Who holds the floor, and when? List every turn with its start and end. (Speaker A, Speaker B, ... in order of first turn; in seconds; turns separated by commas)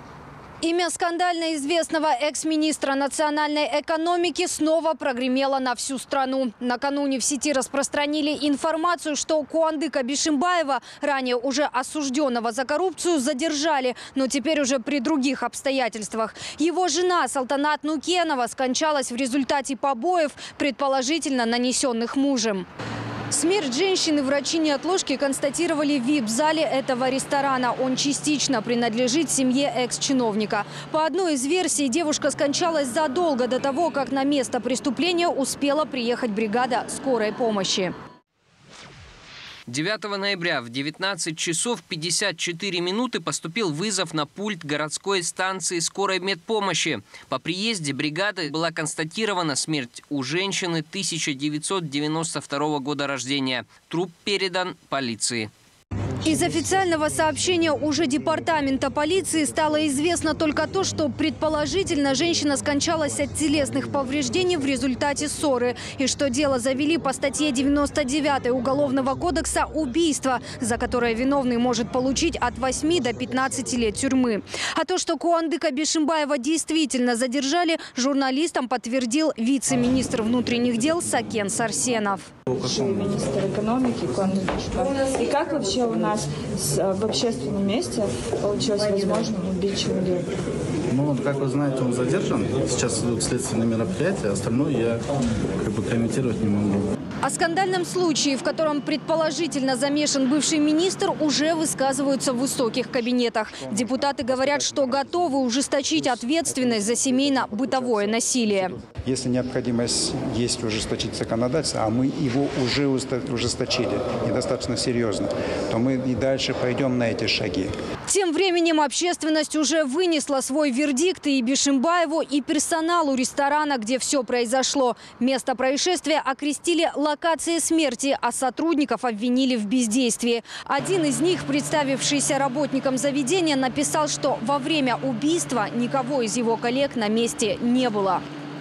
Speaker A: 0.6-22.6, Speaker A: 23.3-37.9, Speaker B: 39.7-55.5, Speaker A: 56.2-82.3, Speaker C: 82.5-90.3, Speaker D: 90.9-95.0, Speaker D: 95.6-96.9, Speaker A: 97.2-108.8, Speaker E: 104.2-105.0, Speaker E: 108.9-117.7, Speaker A: 118.1-138.2